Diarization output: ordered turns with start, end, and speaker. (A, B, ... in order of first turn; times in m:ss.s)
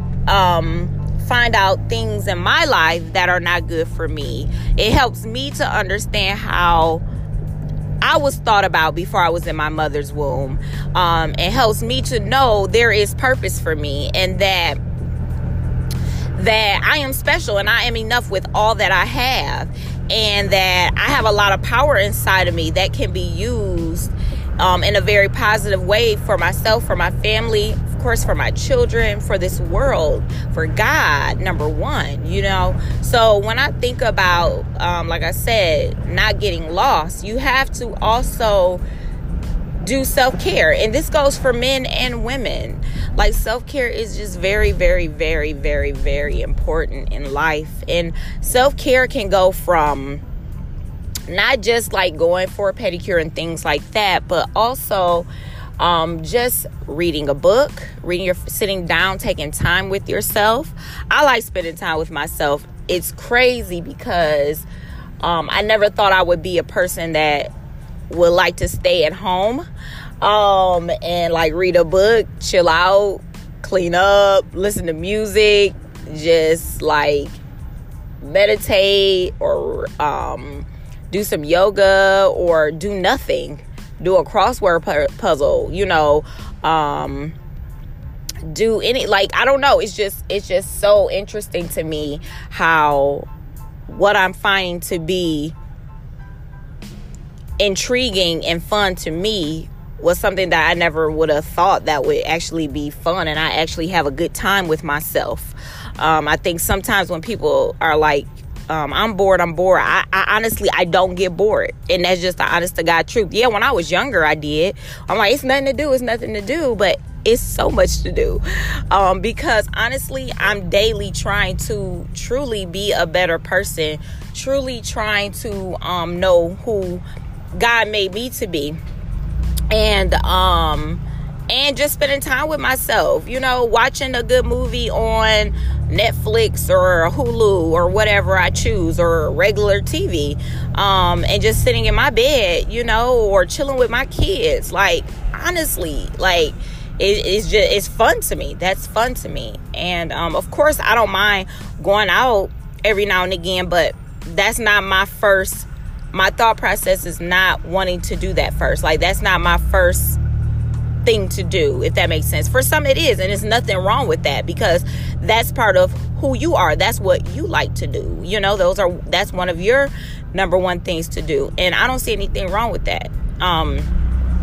0:00.3-0:07.0 A
0:08.0-0:14.8 A
0:16.4-0:38.8 A
0:39.8-0:50.2 A
0:51.3-0:55.3 A
0:55.8-1:04.6 A
1:05.2-1:07.5 A
1:08.1-1:09.6 A
1:10.2-1:17.4 A
1:18.2-1:27.4 A
1:28.4-1:33.3 A
1:33.9-1:35.5 A
1:37.6-2:07.0 A
2:07.5-2:08.8 A
2:09.7-2:40.2 A
2:41.0-2:53.9 A